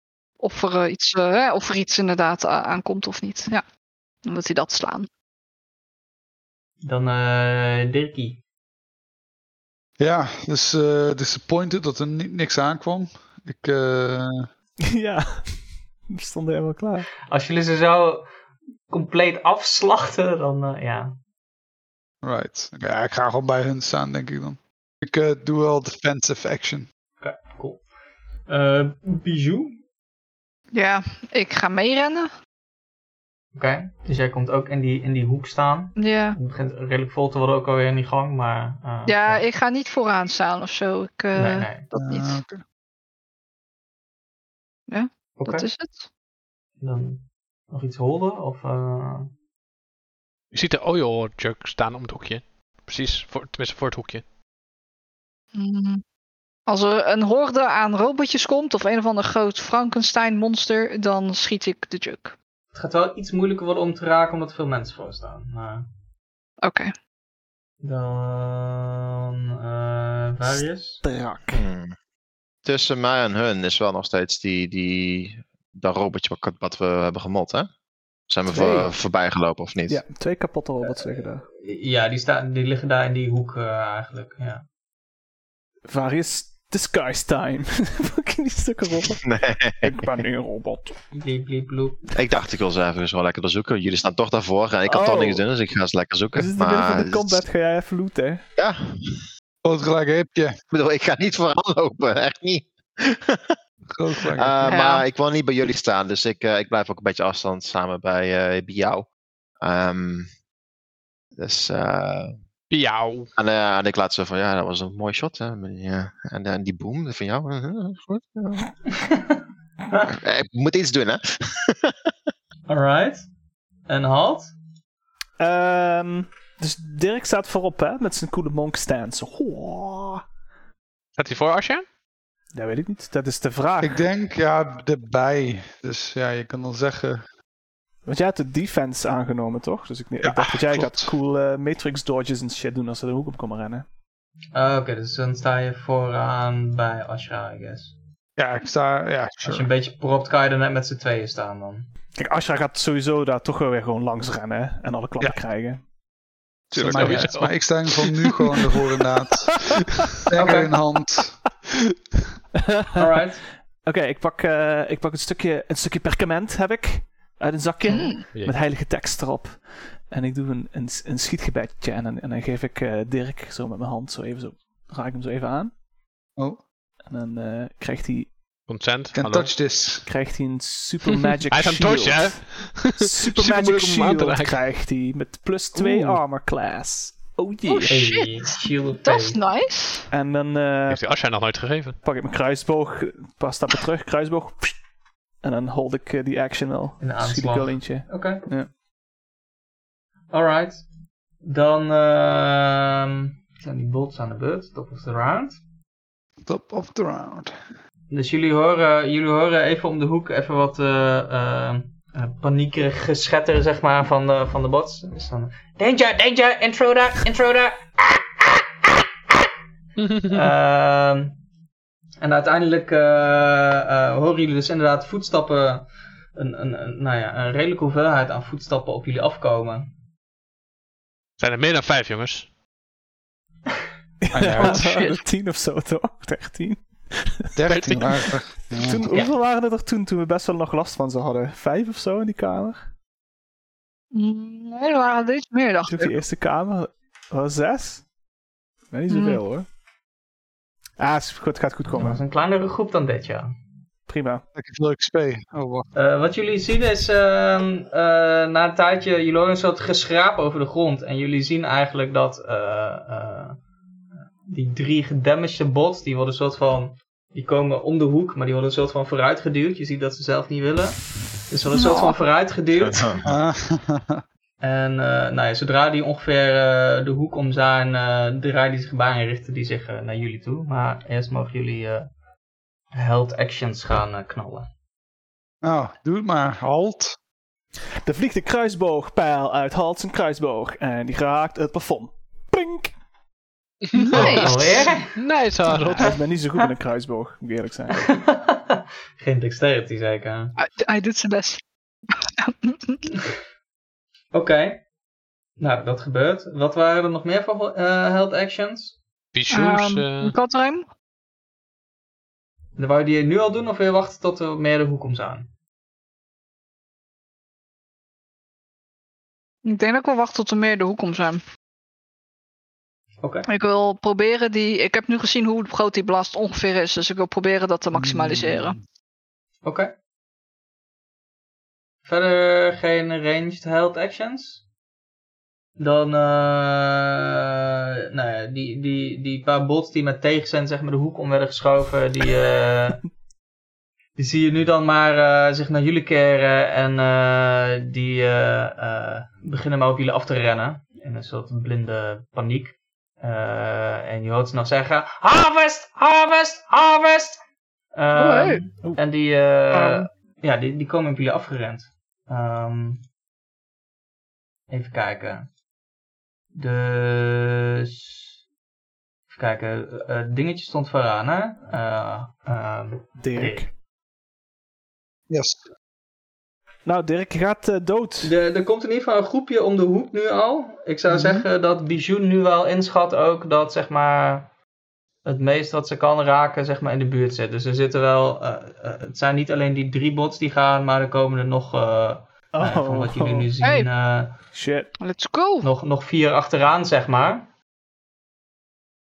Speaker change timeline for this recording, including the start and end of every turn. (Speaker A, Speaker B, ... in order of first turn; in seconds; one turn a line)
Speaker A: 0.4-3.6
Speaker A: 4.2-5.1
Speaker B: 6.8-8.4
Speaker C: 10.0-14.5
Speaker D: 14.9-17.1
Speaker B: 17.3-18.3
Speaker B: 18.9-21.2
Speaker C: 22.2-26.9
Speaker B: 27.2-27.9
Speaker B: 28.5-29.8
Speaker A: 30.7-32.3
Speaker B: 33.5-39.4
Speaker A: 36.0-36.4
Speaker A: 39.1-42.4
Speaker B: 41.4-41.9
Speaker C: 41.9-42.6
Speaker A: 44.9-46.1
Speaker B: 45.4-45.7
Speaker B: 46.8-49.3
Speaker E: 50.5-54.2
Speaker A: 55.5-56.0
Speaker A: 56.7-62.4
Speaker B: 62.7-65.9
Speaker A: 66.6-66.9
Speaker B: 67.8-71.0
Speaker D: 70.5-71.6
Speaker F: 71.5-72.0
Speaker F: 72.7-77.7
Speaker F: 78.3-80.0
Speaker D: 78.5-79.0
Speaker D: 79.9-81.5
Speaker B: 80.8-84.7
Speaker D: 85.9-91.0
Speaker F: 89.2-90.0
Speaker B: 91.1-92.1
Speaker F: 92.2-97.5
Speaker D: 94.9-95.4
Speaker D: 96.3-98.4
Speaker F: 98.6-99.2
Speaker C: 99.6-100.6
Speaker F: 100.7-103.6
Speaker C: 103.9-104.8
Speaker F: 104.3-109.1
Speaker A: 104.7-105.0
Speaker F: 109.6-110.3
Speaker F: 111.4-112.4
Speaker E: 112.7-113.3
Speaker F: 113.4-118.7
Speaker F: 120.1-121.9
Speaker B: 122.7-123.2
Speaker B: 123.9-124.5
Speaker D: 125.4-130.2
Speaker E: 131.2-131.9
Speaker D: 132.5-134.0
Speaker C: 133.8-137.2
Speaker D: 138.1-143.8
Speaker C: 140.2-141.1
Speaker B: 144.5-147.9
Speaker C: 148.4-149.7
Speaker B: 149.4-151.9
Speaker D: 152.2-155.8
Speaker C: 156.7-159.6
Speaker E: 156.7-158.4
Speaker B: 156.9-157.3
Speaker C: 160.2-161.4
Speaker B: 160.3-160.7
Speaker B: 162.9-163.4
Speaker D: 163.8-175.8
Speaker A: 167.8-168.3
Speaker D: 177.1-178.3
Speaker E: 178.7-179.5
Speaker C: 179.1-180.1
Speaker D: 180.1-188.0
Speaker E: 181.5-184.6
Speaker E: 185.8-186.1
Speaker A: 187.7-190.1
Speaker B: 187.9-189.4
Speaker D: 190.1-191.0
Speaker E: 190.9-192.0
Speaker D: 192.0-194.8
Speaker D: 195.4-198.7
Speaker B: 197.0-198.4
Speaker B: 200.3-200.8
Speaker B: 201.4-205.6
Speaker C: 206.5-207.5
Speaker B: 208.1-217.8
Speaker E: 220.0-220.5
Speaker B: 220.3-221.4
Speaker B: 222.2-229.9
Speaker E: 231.4-232.5
Speaker D: 234.2-238.0
Speaker C: 234.3-234.8
Speaker C: 237.6-239.1
Speaker E: 237.7-238.2
Speaker D: 238.8-242.8
Speaker B: 239.1-239.3
Speaker A: 244.1-246.1
Speaker D: 245.9-248.1
Speaker D: 248.9-249.7
Speaker A: 249.1-249.4
Speaker D: 251.0-252.2
Speaker B: 251.9-253.5
Speaker D: 254.1-254.4
Speaker C: 254.6-255.9
Speaker B: 255.9-263.6
Speaker B: 264.4-273.2
Speaker A: 271.7-272.2
Speaker F: 272.7-273.3
Speaker C: 273.2-274.2
Speaker B: 274.6-282.1
Speaker B: 282.9-284.7
Speaker C: 285.6-287.2
Speaker D: 288.1-292.9
Speaker E: 293.9-296.2
Speaker A: 294.0-294.6
Speaker B: 294.1-295.2
Speaker D: 296.0-298.1
Speaker B: 297.9-300.6
Speaker A: 300.6-301.6
Speaker A: 302.4-303.0
Speaker B: 304.3-304.8
Speaker B: 305.6-309.0
Speaker E: 309.3-310.4
Speaker A: 309.5-310.9
Speaker B: 312.8-315.5
Speaker A: 319.6-321.4
Speaker B: 323.2-323.5
Speaker A: 323.5-328.8
Speaker C: 327.9-328.8
Speaker B: 329.6-329.9
Speaker B: 332.1-334.6
Speaker B: 335.8-337.3
Speaker B: 338.1-343.1
Speaker B: 344.2-357.4
Speaker B: 357.9-363.0
Speaker A: 358.2-358.5
Speaker A: 359.7-360.0
Speaker B: 364.7-365.5
Speaker B: 366.5-368.3
Speaker B: 369.3-373.7
Speaker D: 373.2-373.7
Speaker C: 375.3-375.6
Speaker D: 376.9-378.4
Speaker B: 378.2-384.5
Speaker C: 381.1-381.4
Speaker B: 385.2-394.4
Speaker D: 392.5-393.5
Speaker A: 393.6-393.9
Speaker D: 394.5-394.9
Speaker A: 395.0-395.7
Speaker B: 395.6-397.5